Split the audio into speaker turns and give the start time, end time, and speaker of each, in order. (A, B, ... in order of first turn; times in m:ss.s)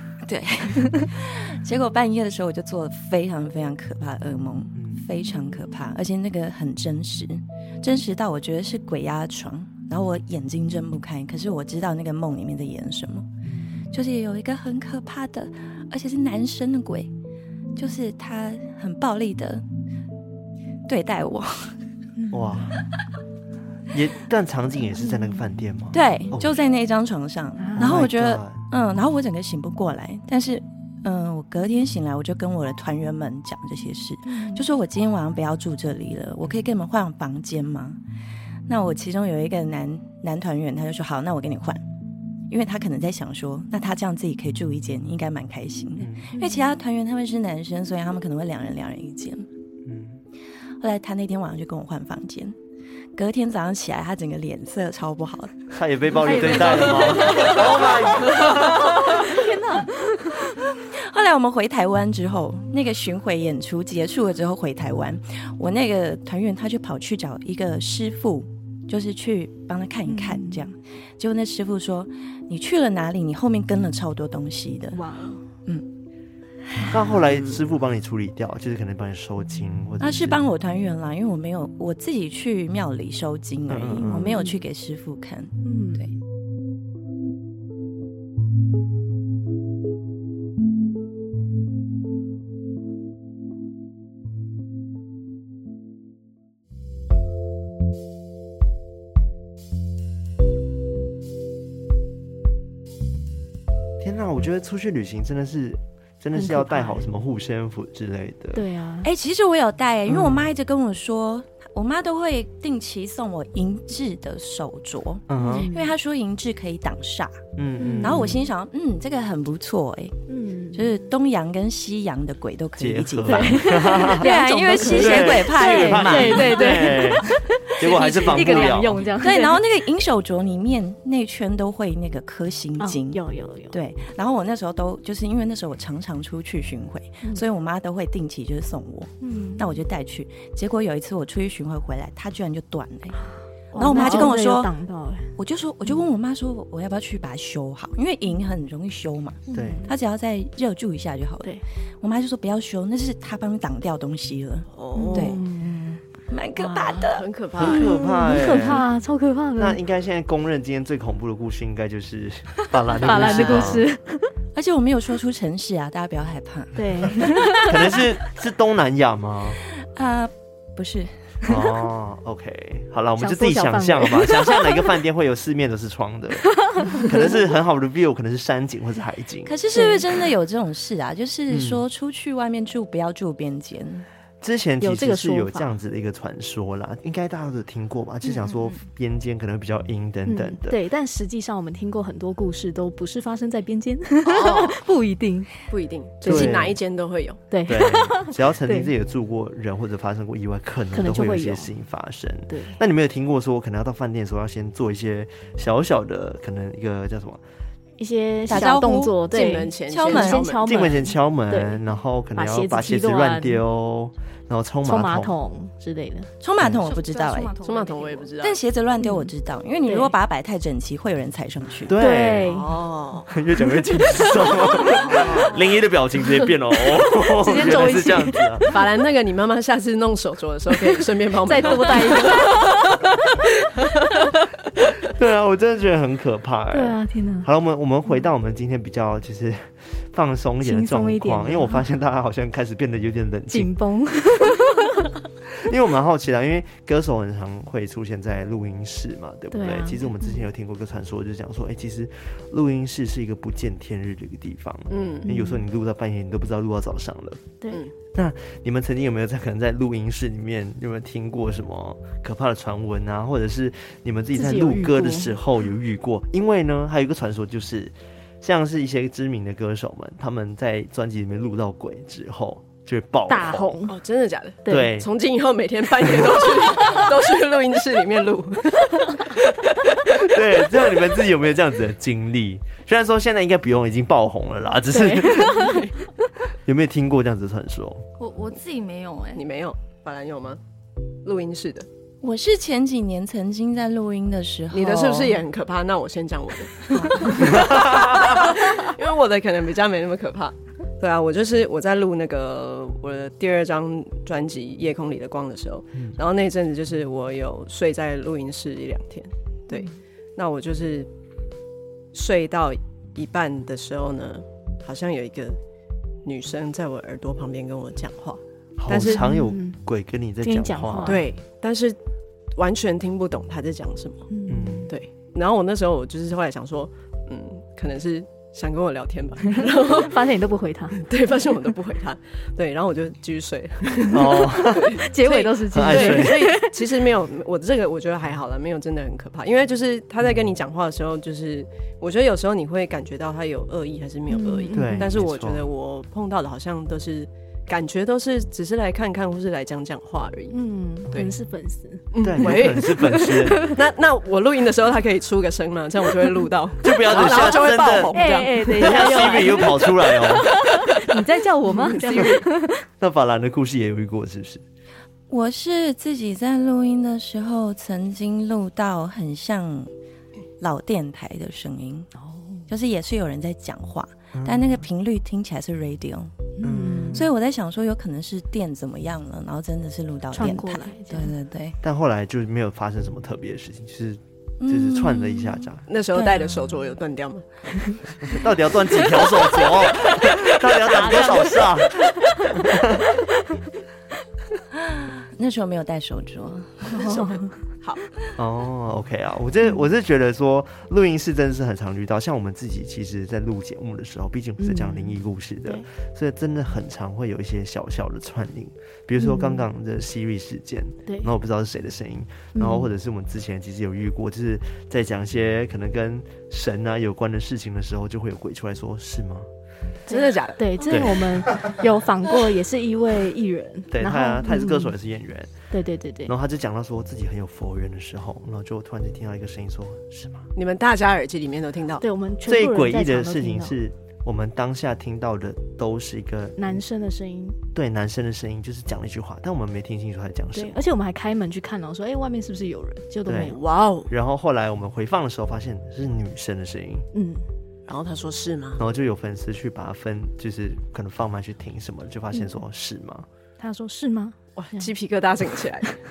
0:00.2-0:13.3 A
0:04.8-0:05.0 B
0:13.4-0:13.8 B
0:13.9-0:17.1 A
0:17.8-0:19.6 A
0:20.9-0:21.8 A
0:22.3-0:22.8 B
0:23.9-0:26.6 B
0:25.9-0:38.0 A
0:27.6-0:28.0 C
0:27.8-0:28.7 B
0:34.3-0:34.6 C
0:38.7-0:41.8 A
0:42.5-0:49.5 A
0:46.0-0:46.3 B
0:46.3-0:46.6 C
0:49.8-0:50.2 B
0:50.8-0:52.6 A
0:53.2-0:55.8 A
0:55.7-0:59.4 B
0:56.2-1:00.4 C
1:00.5-1:15.0 A
1:10.1-1:10.6 C
1:14.9-1:15.4 C
1:16.9-1:20.4 B
1:20.0-1:25.6 A
1:23.7-1:24.4 B
1:24.1-1:24.6 C
1:25.6-1:26.1 C
1:44.0-1:48.7 B
1:46.4-1:47.0 C
1:48.6-1:49.1 C
1:49.0-1:57.4 A
1:50.1-1:50.5 B
1:55.3-1:55.7 B
1:55.4-1:55.9 C
1:57.6-1:58.4 B
1:57.8-1:58.4 C
1:58.0-2:07.1 A
2:00.3-2:00.8 C
2:02.8-2:04.3 B
2:03.3-2:09.6 C
2:04.9-2:09.1 B
2:08.0-2:23.2 A
2:12.8-2:13.8 C
2:19.2-2:19.7 C
2:23.7-2:25.3 C
2:23.8-2:24.7 A
2:25.4-2:37.3 A
2:29.5-2:29.9 C
2:29.5-2:29.8 B
2:34.7-2:35.4 D
2:35.0-2:36.0 C
2:36.6-2:39.8 C
2:37.1-2:38.0 D
2:37.6-2:38.9 B
2:39.6-2:43.9 B
2:43.0-2:44.3 C
2:43.3-2:43.7 A
2:44.6-2:47.9 A
2:46.8-2:48.1 C
2:47.7-2:49.6 B
2:49.7-2:51.6 A
2:51.4-2:59.5 B
2:53.2-2:54.9 C
2:56.6-2:57.1 C
2:59.4-3:04.1 A
2:59.8-3:00.0 C
3:01.5-3:01.8 B
3:04.4-3:10.8 B
3:04.8-3:05.7 C
3:10.3-3:15.7 C
3:14.3-3:14.8 D
3:15.7-3:17.4 D
3:16.2-3:16.6 C
3:16.2-3:16.8 B
3:17.5-3:18.9 C
3:17.7-3:27.4 B
3:20.9-3:21.7 C
3:22.5-3:22.8 C
3:28.0-3:31.8 C
3:28.5-3:29.2 A
3:29.3-3:30.9 D
3:29.9-3:30.5 A
3:30.6-3:35.3 B
3:32.4-3:33.6 C
3:34.8-3:36.3 C
3:36.4-3:37.5 A
3:36.8-3:38.3 E
3:37.6-3:38.6 D
3:38.4-3:42.0 A
3:39.0-3:39.3 C
3:39.8-3:40.1 C
3:41.9-3:42.5 B
3:42.0-3:42.8 C
3:42.4-3:43.3 D
3:43.3-3:48.7 B
3:44.8-3:45.3 C
3:47.2-3:48.8 C
3:48.7-3:52.6 D
3:51.4-3:53.1 C
3:55.0-4:03.7 B
3:56.7-3:57.5 C
4:00.6-4:01.8 C
4:03.5-4:05.1 C
4:05.5-4:17.5 B
4:09.5-4:10.4 C
4:14.9-4:15.3 D
4:15.3-4:15.6 C
4:18.1-4:33.8 B
4:24.3-4:25.3 C
4:33.3-4:34.0 C
4:33.9-4:39.2 D
4:34.6-4:34.9 C
4:34.7-4:35.1 B
4:40.0-4:45.8 B
4:44.9-4:45.9 C
4:45.6-4:45.9 D
4:46.6-4:48.0 B
4:48.2-4:49.4 E
4:49.4-4:50.6 D
4:51.2-4:51.9 D
4:52.2-4:55.4 A
4:54.7-5:11.1 D
4:57.4-4:58.4 B
5:12.1-5:15.6 D
5:16.2-5:19.2 D
5:18.8-5:21.2 B
5:19.0-5:19.8 C
5:20.4-5:21.3 C
5:21.0-5:22.0 D
5:22.6-5:24.3 D
5:24.3-5:24.9 C
5:24.5-5:24.9 B
5:24.9-5:30.2 D
5:29.6-5:31.0 C
5:31.0-5:50.6 D
5:34.1-5:35.0 B
5:35.0-5:36.9 C
5:35.7-5:36.5 B
5:44.3-5:45.1 C
5:44.7-5:45.6 B
5:50.5-5:53.8 C
5:52.1-5:59.8 D
5:52.2-5:53.7 B
5:56.8-6:00.5 B
5:58.1-6:02.8 C
6:01.7-6:02.5 D
6:03.0-6:04.6 B
6:05.3-6:09.9 A
6:10.6-6:12.1 A
6:12.2-6:12.6 C
6:12.7-6:21.8 A
6:14.4-6:14.8 B
6:16.6-6:17.3 C
6:16.6-6:17.3 B
6:20.3-6:21.3 C
6:21.8-6:25.8 B
6:24.6-6:26.5 A
6:25.9-6:27.4 D
6:28.2-6:33.1 B
6:30.9-6:32.4 C
6:34.7-6:37.1 A
6:36.9-6:38.0 D
6:36.9-6:37.6 C
6:38.4-6:59.5 B
6:44.6-6:45.8 C
6:49.2-6:49.6 C
6:51.1-6:51.3 C
6:52.6-6:52.9 C
7:00.1-7:05.0 C
7:00.1-7:00.9 D
7:00.9-7:01.6 B
7:03.9-7:05.5 B
7:05.7-7:06.3 C
7:06.3-7:10.5 B
7:10.6-7:12.0 D
7:12.0-7:13.8 C
7:12.5-7:16.7 B
7:16.6-7:17.6 C
7:17.7-7:20.8 B
7:20.5-7:23.6 C
7:23.3-7:23.6 B
7:23.5-7:24.1 D
7:24.1-7:27.1 B
7:27.1-7:27.5 C
7:27.9-7:28.8 D
7:28.8-7:33.3 B
7:33.6-7:34.9 C
7:34.6-7:36.0 D